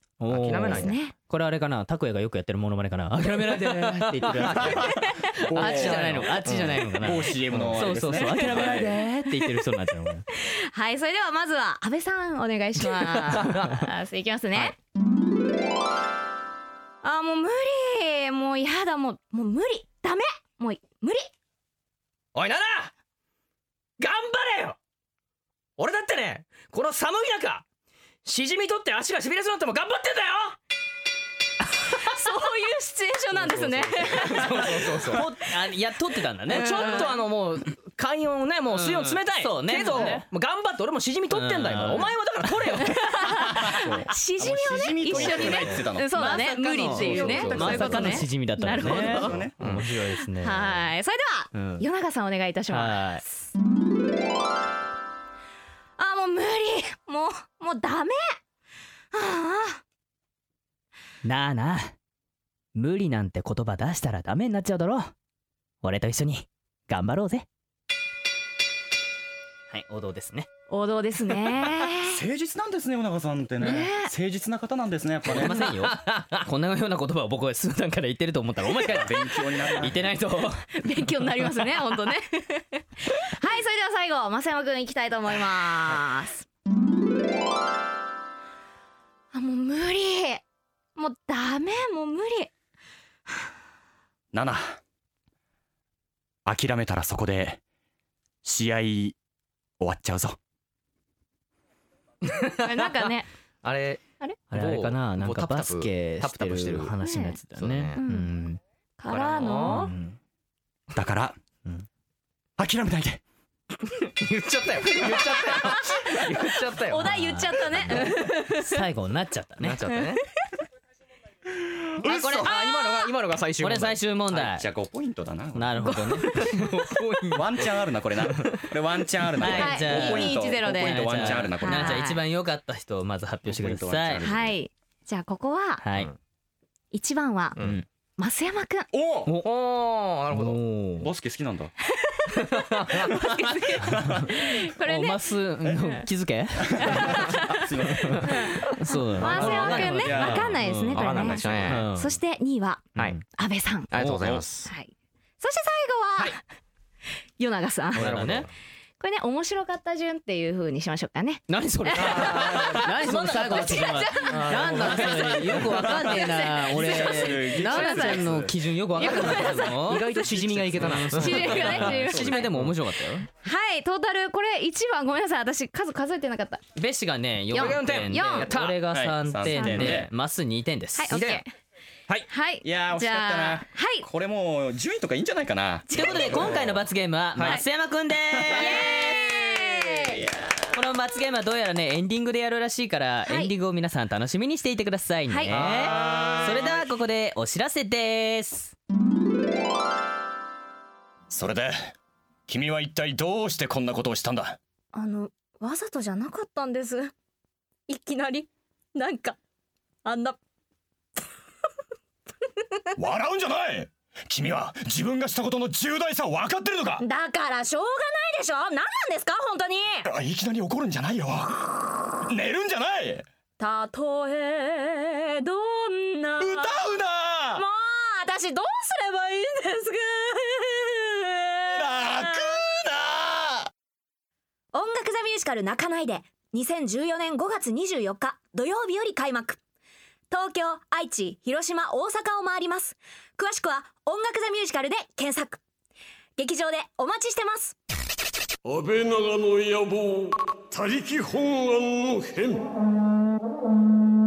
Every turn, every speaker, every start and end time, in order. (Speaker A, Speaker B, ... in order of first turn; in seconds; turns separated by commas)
Speaker A: 0.2-10.3, Speaker B: 0.3-1.0, Speaker C: 0.7-1.1, Speaker B: 3.5-4.9, Speaker D: 4.5-6.4, Speaker C: 5.0-5.3, Speaker B: 5.4-7.8, Speaker D: 7.0-9.0, Speaker C: 10.3-14.8, Speaker B: 12.8-13.8, Speaker C: 17.0-21.3, Speaker B: 22.4-22.9, Speaker B: 24.0-24.8, Speaker B: 25.8-27.6, Speaker B: 28.2-30.6, Speaker C: 31.9-35.1, Speaker B: 33.3-35.3, Speaker A: 35.1-37.1, Speaker B: 36.5-44.1, Speaker C: 36.5-37.2, Speaker A: 38.7-40.3, Speaker A: 41.3-42.8, Speaker C: 42.9-49.4, Speaker A: 43.5-44.0, Speaker D: 44.4-46.1, Speaker B: 45.2-45.5, Speaker A: 45.4-50.9, Speaker B: 46.9-48.3, Speaker D: 48.7-49.5, Speaker B: 48.9-49.9, Speaker C: 50.4-53.5, Speaker A: 51.5-51.9, Speaker A: 52.7-53.2, Speaker C: 56.0-58.4, Speaker C: 59.1-59.8, Speaker A: 61.2-62.0, Speaker A: 62.8-65.1, Speaker A: 65.8-67.5, Speaker A: 69.7-70.5, Speaker C: 70.7-72.2, Speaker D: 71.6-75.7, Speaker C: 73.6-74.1, Speaker A: 75.3-80.7, Speaker B: 75.3-76.5, Speaker D: 78.8-80.1, Speaker C: 80.8-86.5, Speaker C: 89.3-90.4, Speaker C: 91.0-92.5, Speaker D: 94.3-94.8, Speaker D: 96.5-97.6, Speaker D: 98.4-99.2, Speaker D: 99.8-100.4, Speaker B: 102.2-102.9, Speaker C: 102.6-103.3, Speaker B: 103.6-107.0, Speaker A: 104.5-108.6, Speaker C: 107.0-107.4, Speaker B: 107.6-108.0, Speaker C: 108.0-108.3, Speaker C: 109.0-109.9, Speaker B: 109.1-109.9, Speaker A: 109.6-110.2, Speaker D: 111.0-111.4, Speaker D: 112.6-113.2, Speaker B: 114.0-117.1, Speaker C: 115.1-118.8, Speaker A: 117.0-119.8, Speaker B: 119.6-120.2, Speaker D: 122.0-122.6, Speaker A: 122.0-122.4, Speaker C: 122.4-123.1, Speaker B: 122.4-124.0, Speaker A: 123.6-124.7, Speaker D: 124.3-126.2, Speaker A: 125.5-126.5, Speaker C: 125.8-126.7, Speaker B: 126.3-127.7, Speaker D: 127.3-132.1, Speaker A: 129.4-134.3, Speaker C: 129.4-132.2, Speaker D: 133.5-134.6, Speaker C: 134.2-135.8, Speaker A: 135.8-136.1, Speaker C: 136.9-137.6, Speaker A: 137.6-137.9, Speaker C: 138.2-138.9, Speaker D: 138.9-139.3, Speaker B: 139.4-140.6, Speaker A: 140.3-141.1, Speaker D: 141.0-141.7, Speaker C: 141.8-146.0, Speaker B: 142.3-143.1, Speaker D: 143.1-144.3, Speaker A: 143.9-147.4, Speaker D: 146.7-148.6, Speaker C: 146.8-153.9, Speaker A: 148.0-152.2, Speaker B: 148.6-150.2, Speaker D: 149.3-150.6, Speaker B: 150.9-151.9, Speaker A: 153.0-153.2, Speaker B: 153.9-154.7, Speaker A: 153.9-154.4, Speaker C: 154.7-156.4, Speaker C: 157.4-158.3, Speaker A: 157.9-158.5, Speaker B: 158.0-158.5, Speaker C: 159.0-165.2, Speaker A: 161.5-170.1, Speaker B: 162.0-165.9, Speaker D: 165.3-169.6, Speaker C: 165.9-168.4, Speaker B: 169.0-172.8, Speaker C: 169.1-169.6, Speaker D: 170.1-171.2, Speaker A: 170.7-173.3, Speaker C: 171.1-172.5, Speaker C: 173.4-176.6, Speaker A: 176.8-181.2, Speaker C: 177.5-178.5, Speaker B: 177.5-178.8, Speaker D: 178.9-180.1, Speaker C: 179.5-180.0, Speaker C: 181.0-181.5, Speaker B: 181.1-181.4, Speaker C: 182.3-184.1, Speaker D: 182.6-186.9, Speaker C: 185.9-186.6, Speaker A: 185.9-189.0, Speaker B: 187.3-187.6, Speaker D: 188.3-190.8, Speaker C: 188.5-190.2, Speaker A: 190.7-198.8, Speaker C: 193.3-193.5, Speaker C: 195.3-196.1, Speaker B: 195.5-196.8, Speaker D: 195.9-196.3, Speaker D: 201.3-201.9, Speaker D: 202.5-204.6, Speaker C: 204.9-207.1, Speaker C: 207.9-209.4, Speaker C: 210.1-210.4, Speaker D: 213.0-217.1, Speaker C: 217.0-220.1, Speaker D: 220.1-223.2, Speaker C: 223.6-226.8, Speaker D: 226.4-227.6, Speaker C: 227.6-232.6, Speaker D: 231.7-233.7, Speaker C: 234.7-239.6, Speaker C: 240.3-245.6, Speaker C: 246.4-247.8, Speaker E: 248.7-252.7